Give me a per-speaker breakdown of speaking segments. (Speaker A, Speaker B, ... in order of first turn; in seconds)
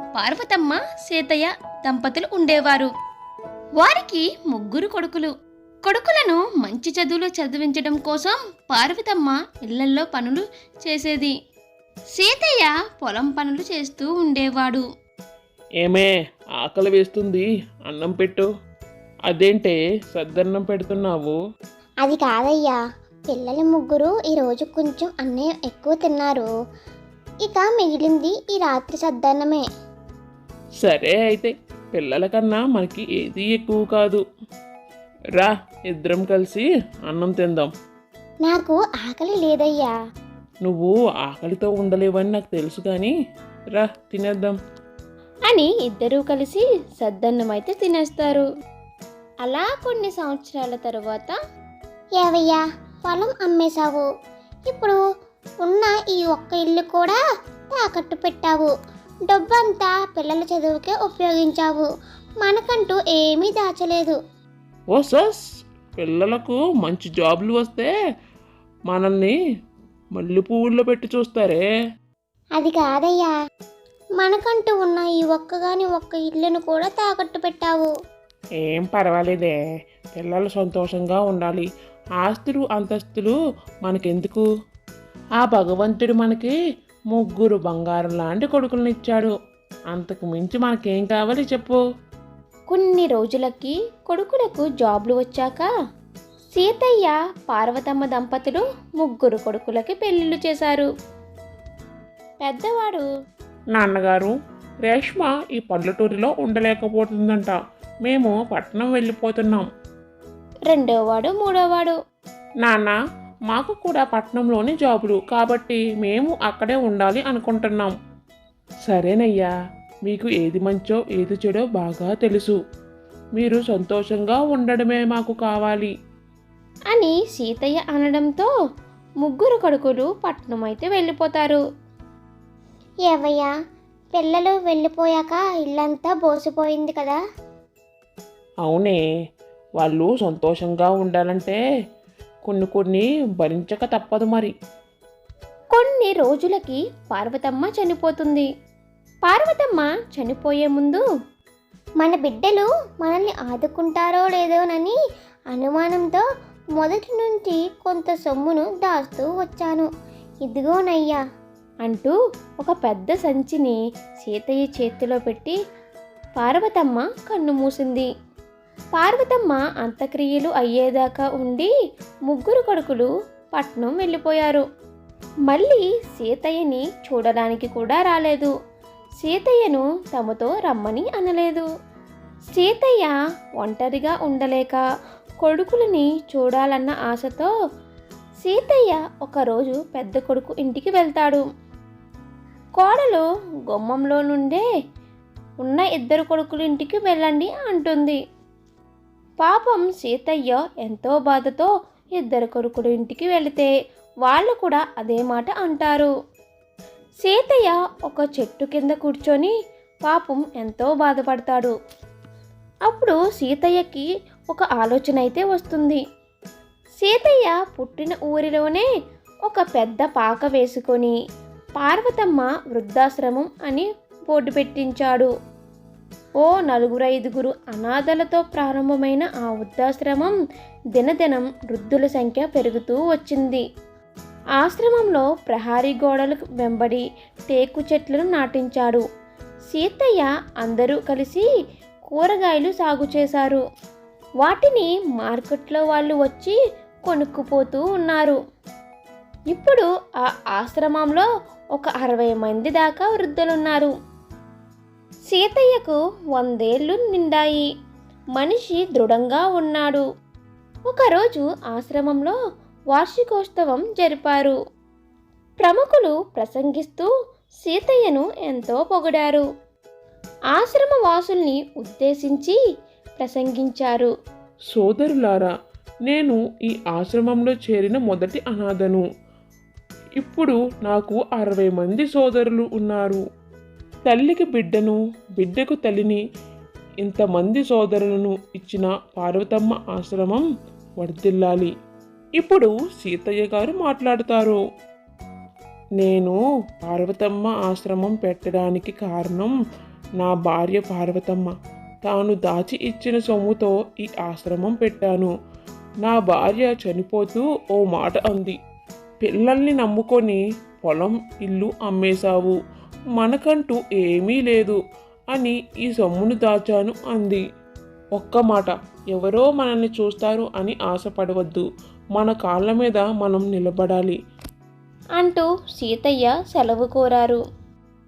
Speaker A: 0.1-2.9, 3.8-5.3, 5.8-11.3, 12.2-14.8, 45.5-48.5, 49.4-51.4, 92.7-95.7, 96.5-100.9, 102.4-103.0, 110.7-112.0, 126.9-128.5, 129.2-131.6, 145.7-148.5, 149.2-151.0, 161.8-165.6, 166.4-168.1, 169.0-171.7, 172.3-174.7, 175.5-178.5, 179.2-181.7, 182.5-184.8, 185.4-187.5, 188.4-191.4, 192.8-194.6, 195.6-198.2, 199.4-203.7, 204.3-206.1, 207.2-209.5, 210.1-211.8, 212.9-216.0, 217.0-218.9, 219.5-221.2, 221.8-225.3, 226.4-230.3, 231.0-233.6, 234.6-239.1, 239.7-241.4, 242.1-243.6, 244.4-246.6, 247.1-248.4, 249.5-249.8, 250.5-253.9, 255.3-257.7, 258.4-260.0, 260.9-262.4, 262.9-264.6, 265.6-267.1, 267.6-269.4, 270.6-272.6, 273.2-274.1, 325.2-327.4
Speaker B: 15.8-18.5, 19.3-21.4, 30.8-34.2, 35.4-37.7, 40.6-43.1, 43.8-44.6, 64.9-65.4, 66.0-67.9, 68.9-69.3, 70.2-71.6, 78.6-79.6, 80.2-81.7, 82.2-84.5, 85.4-86.5, 87.1-89.3, 89.9-91.8, 103.8-104.3, 104.9-109.7, 112.6-113.0, 113.5-117.9, 118.9-119.5, 120.1-122.6, 123.4-125.9, 138.6-139.0, 139.8-141.6, 142.5-144.5, 274.7-275.5, 276.1-279.0, 280.2-283.2, 284.1-286.2, 287.1-290.5, 291.0-291.7, 292.4-294.6, 296.0-299.5, 300.2-301.5, 302.1-305.3, 306.0-308.6, 309.2-312.6, 313.2-314.8, 315.3-317.4, 318.2-324.2
Speaker C: 22.0-26.5, 27.4-29.6, 38.5-40.0, 52.2-54.1, 54.7-55.0, 55.6-57.2, 57.7-58.7, 59.3-61.9, 62.4-64.2, 72.6-73.3, 74.2-77.9, 133.1-133.5, 134.1-137.2, 152.0-154.9, 155.5-156.2, 156.8-159.9, 160.4-161.2